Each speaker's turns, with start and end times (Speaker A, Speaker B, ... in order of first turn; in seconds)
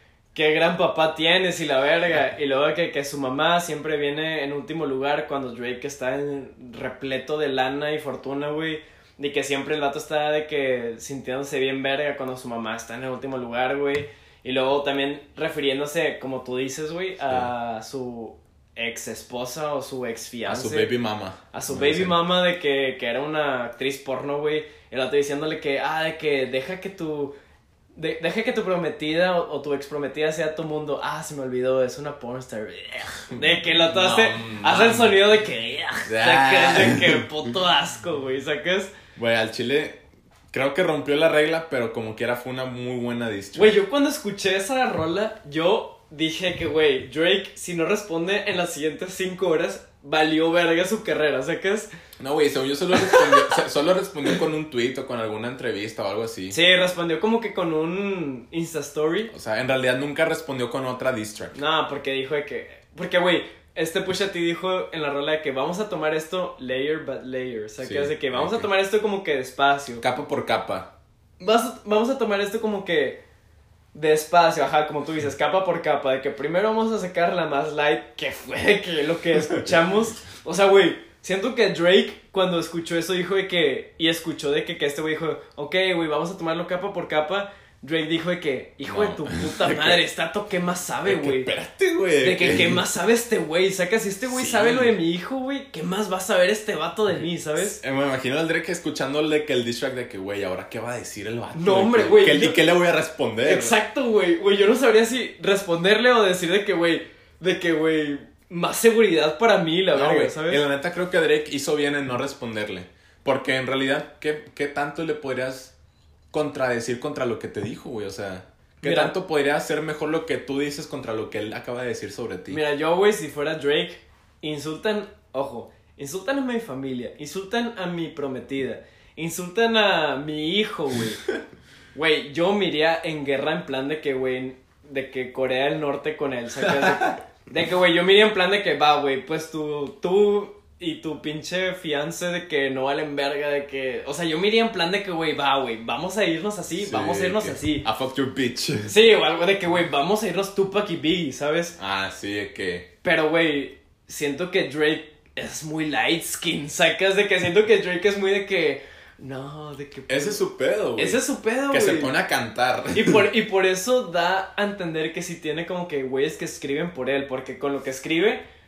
Speaker A: 0.3-20.9, 21.5-27.3, 27.9-38.9, 43.5-51.9, 52.9-53.6, 56.5-59.3, 61.5-70.0, 71.4-73.2, 73.9-91.5, 92.2-97.8, 101.5-102.6, 103.4-110.6, 118.8-119.1, 122.5-131.2, 131.9-147.9, 148.8-151.8, 153.0-160.4, 160.9-162.1, 162.9-168.4
Speaker B: 20.4-22.2, 33.3-35.2, 36.0-37.3, 39.1-43.7, 52.2-56.6, 59.3-61.6, 67.8-68.7, 70.0-70.9, 88.8-90.0, 91.0-92.8, 94.2-94.9, 97.6-103.8, 109.9-115.7, 116.3-122.6, 136.7-137.2, 146.8-148.9, 151.8-152.9, 160.1-163.2